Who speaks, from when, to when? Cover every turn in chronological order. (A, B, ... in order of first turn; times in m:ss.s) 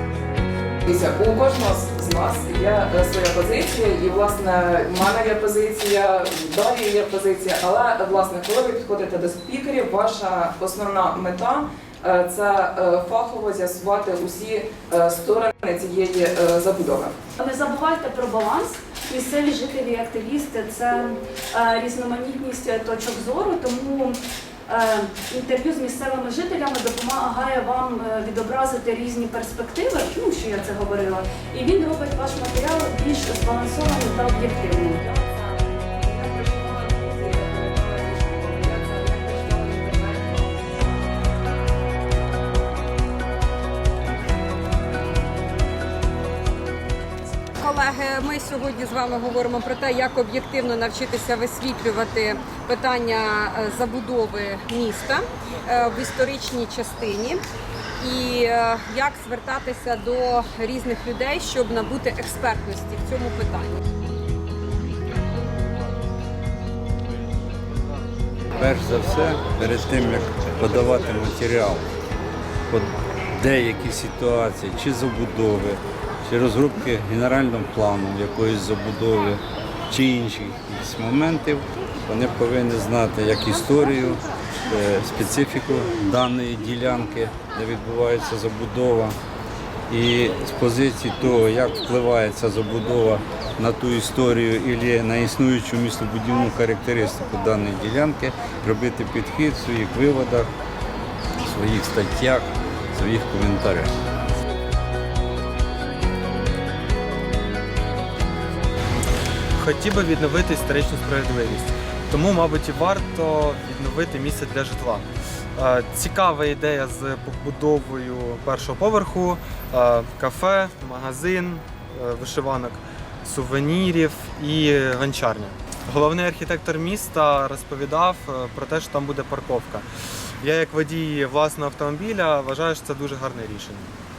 0:00.8-0:17.2 A
0:17.4-0:35.0 B
0:35.0-0:40.9 A
0:47.6-0:57.4 C
0:58.0-1:03.8 C
1:08.5-1:11.9 D
1:12.7-1:29.2 D
1:29.9-1:40.5 D
1:41.4-1:43.9 D
1:49.6-1:55.0 E
1:55.6-2:09.8 E
2:10.4-2:13.8 E